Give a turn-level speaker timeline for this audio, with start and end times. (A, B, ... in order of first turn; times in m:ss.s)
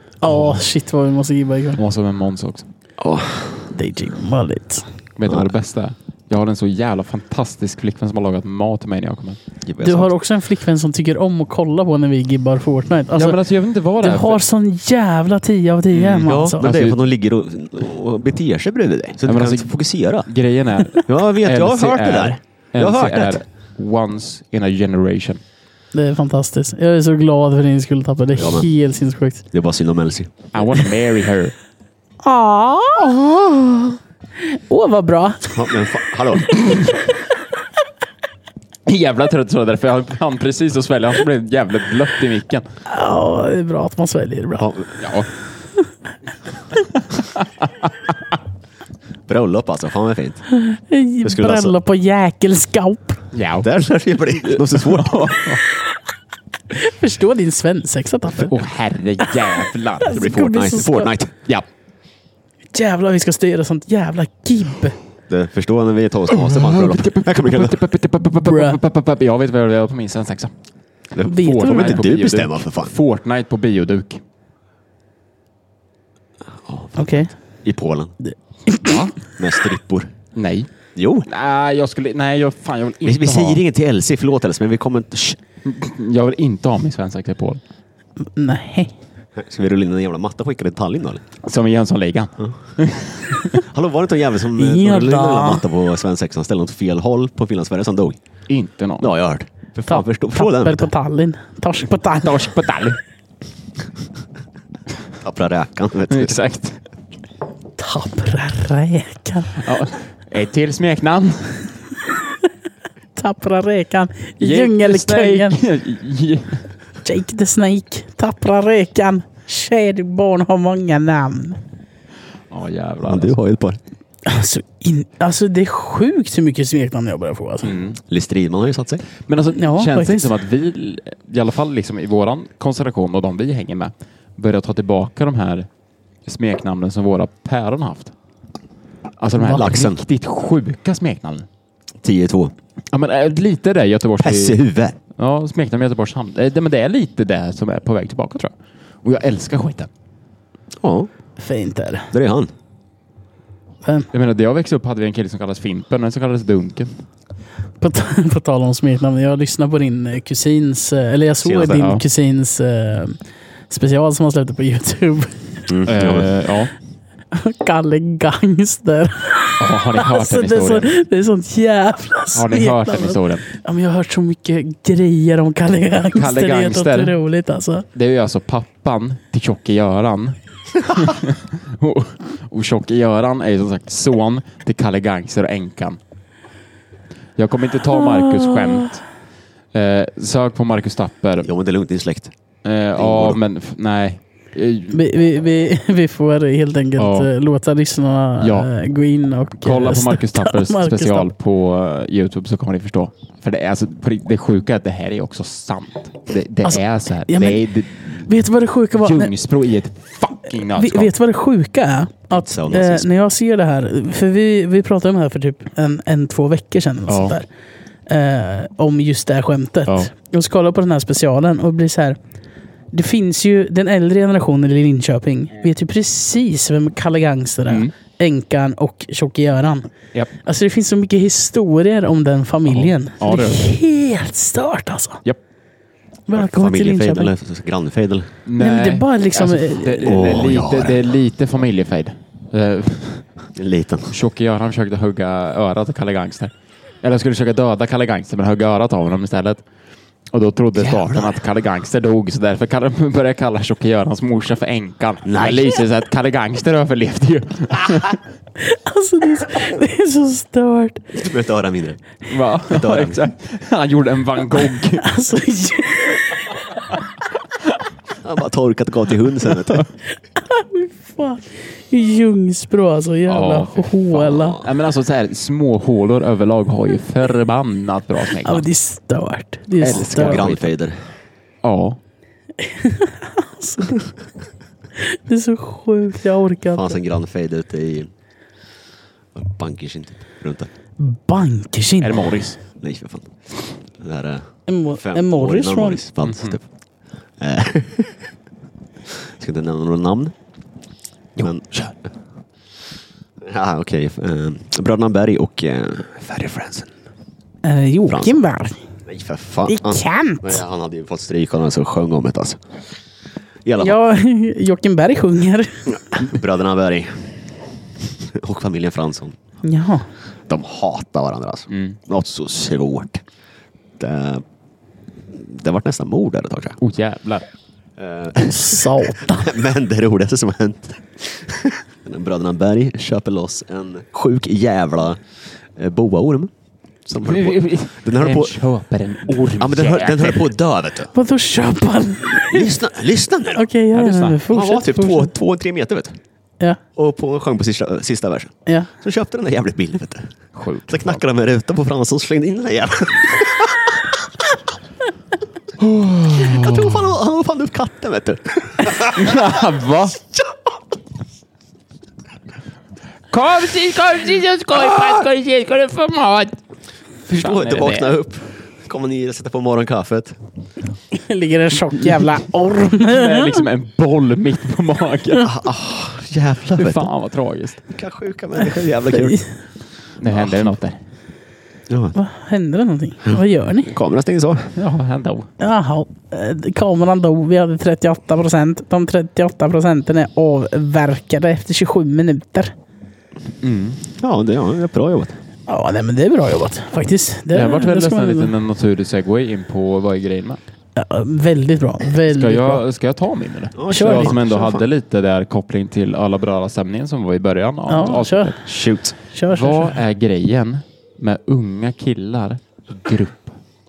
0:00.2-0:01.8 A
0:00.2-0:00.6 B
0:01.8-0:02.6 B
0:03.0-0:03.7 C
0:03.7-0:04.8 A
0:05.2-0:09.4 B
0:09.6-0:10.1 C
0:09.8-0:13.4 A
0:13.1-0:14.4 B
0:14.0-0:16.6 A
0:15.9-0:17.0 B
0:16.2-0:20.3 C
0:19.2-0:25.4 B
0:21.0-0:23.4 C
0:25.9-0:29.4 A
0:28.4-0:28.7 C
0:29.5-0:30.3 C
0:30.5-0:31.6 B
0:32.2-0:33.9 A
0:34.4-0:35.5 A
0:35.5-0:36.6 C
0:36.5-0:37.0 A
0:38.8-0:42.6 B
0:42.9-0:44.7 A
0:44.6-0:44.9 C
0:45.0-0:45.3 B
0:47.2-0:47.4 B
0:49.3-0:50.4 C
0:50.5-0:53.2 A
0:51.2-0:51.7 C
0:53.3-0:53.7 B
0:53.6-0:55.4 C
0:54.4-0:55.6 B
0:56.7-0:58.6 A
0:58.4-1:00.2 B
0:59.2-1:01.1 A
1:00.1-1:01.4 C
1:02.7-1:04.9 A
1:05.3-1:07.8 C
1:06.3-1:10.5 B
1:08.4-1:08.8 A
1:11.1-1:12.9 C
1:11.2-1:14.2 B
1:11.2-1:12.1 A
1:16.6-1:18.1 C
1:17.0-1:17.3 A
1:18.3-1:19.1 A
1:18.8-1:19.1 B
1:19.4-1:20.1 C
1:20.3-1:20.7 B
1:21.0-1:21.3 C
1:21.2-1:23.6 B
1:23.0-1:25.4 C
1:25.6-1:27.6 B
1:28.3-1:28.9 A
1:29.4-1:31.2 C
1:31.4-1:33.6 B
1:33.5-1:38.2 C
1:34.6-1:35.6 A
1:38.5-1:39.1 B
1:39.0-1:40.9 C
1:39.9-1:42.4 A
1:42.2-1:43.0 B
1:45.2-1:46.4 C
1:46.1-1:46.8 B
1:47.8-1:49.6 A
1:49.6-1:51.7 B
1:53.2-1:55.6 A
1:54.4-1:56.6 B
1:57.0-2:01.6 A
2:02.5-2:03.3 B
2:03.0-2:03.8 C
2:04.2-2:07.7 A
2:07.6-2:08.0 B
2:08.1-2:09.0 C
2:09.2-2:15.7 B
2:09.5-2:10.3 A
2:16.2-2:18.1 B
2:19.2-2:21.4 B
2:19.4-2:19.7 A
2:19.5-2:20.0 C
2:22.0-2:22.5 C
2:22.9-2:24.6 B
2:24.2-2:25.0 C
2:25.2-2:29.9 B
2:30.8-2:31.1 C
2:31.4-2:32.1 A
2:32.1-2:32.5 C
2:33.8-2:34.1 A
2:34.1-2:36.9 B
2:37.8-2:43.2 A
2:41.4-2:41.9 C
2:41.8-2:42.0 B
2:43.7-2:45.4 A
2:45.7-2:46.3 C
2:45.8-2:46.7 B
2:47.3-2:57.9 A
2:49.6-2:50.9 B
2:52.3-2:53.4 B
2:56.1-2:57.2 B
2:57.9-3:06.0 B
3:07.4-3:09.0 B
3:08.4-3:08.7 A
3:09.7-3:11.5 B
3:11.4-3:12.3 C
3:12.6-3:15.0 B
3:12.9-3:13.4 C
3:14.9-3:21.3 A
3:17.0-3:17.3 B
3:18.4-3:18.7 B
3:19.6-3:28.3 B
3:26.6-3:27.6 A
3:28.2-3:29.3 A
3:28.9-3:31.1 B
3:30.6-3:37.5 A
3:32.4-3:33.1 C
3:37.1-3:37.4 B
3:38.1-3:42.2 A
3:42.9-3:49.9 A
3:50.4-3:55.2 A
3:52.7-3:53.6 B
3:56.3-3:57.3 A
3:56.3-3:58.3 C
3:58.4-4:03.3 B
3:58.6-4:00.4 A
4:00.0-4:01.1 C
4:03.5-4:04.1 C
4:04.1-4:09.6 B
4:10.3-4:18.2 B
4:10.7-4:11.4 C
4:15.2-4:15.8 C
4:18.6-4:21.1 A
4:21.1-4:22.0 C
4:22.3-4:25.1 B
4:22.6-4:23.2 C
4:25.0-4:26.6 A
4:28.2-4:29.8 C
4:30.3-4:34.6 A
4:33.3-4:38.6 B
4:34.2-4:34.7 C
4:38.4-4:40.5 A
4:39.8-4:40.7 B
4:39.9-4:41.0 C
4:41.6-4:42.0 B
4:42.6-4:44.1 A
4:45.0-4:47.0 A
4:46.7-4:48.1 C
4:49.3-4:50.7 C
4:51.0-4:52.4 A
4:52.0-4:52.6 B
4:52.8-4:56.6 C
4:54.7-4:56.0 A
4:56.2-4:56.6 B
4:57.4-4:58.3 C
4:59.1-5:00.3 C
5:01.4-5:02.1 C
5:03.4-5:06.9 C
5:07.6-5:08.8 A
5:08.1-5:08.4 C
5:09.0-5:12.6 C
5:09.7-5:10.6 A
5:13.6-5:14.0 C
5:13.8-5:16.1 A
5:15.9-5:19.3 C
5:19.6-5:20.1 A
5:20.5-5:23.2 C
5:21.7-5:22.0 B
5:24.0-5:24.4 C
5:25.3-5:26.8 C
5:26.8-5:27.4 B
5:28.0-5:35.2 C
5:28.4-5:29.5 A
5:35.7-5:36.5 C
5:37.0-5:38.6 C
5:37.2-5:40.5 B
5:39.6-5:41.1 C
5:41.1-5:42.7 A
5:42.5-5:43.6 C
5:43.5-5:45.3 A
5:43.9-5:44.5 B
5:44.5-5:46.1 C
5:47.0-5:50.3 C
5:48.6-5:48.9 A
5:50.5-5:51.2 B
5:50.9-5:54.2 C
5:55.8-5:57.1 B
5:56.3-5:59.6 C
5:59.0-6:00.2 B
6:03.3-6:06.6 B
6:07.3-6:10.4 C
6:07.3-6:08.1 B
6:11.1-6:13.6 A
6:13.0-6:15.5 B
6:15.4-6:17.1 C
6:16.8-6:17.8 B
6:17.9-6:19.4 C
6:19.1-6:19.4 A
6:20.2-6:21.0 B
6:20.3-6:20.7 C
6:21.9-6:22.1 C
6:22.1-6:23.9 A
6:23.2-6:24.7 C
6:24.8-6:25.5 B
6:25.6-6:32.7 A
6:33.6-6:34.0 B
6:34.2-6:35.4 C
6:35.7-6:38.5 A
6:37.5-6:40.6 B
6:41.0-6:42.8 A
6:42.3-6:48.6 B
6:43.8-6:44.9 C
6:43.9-6:44.4 A
6:47.9-6:48.5 A
6:48.6-6:49.1 C
6:49.3-6:50.0 A
6:49.5-6:53.5 B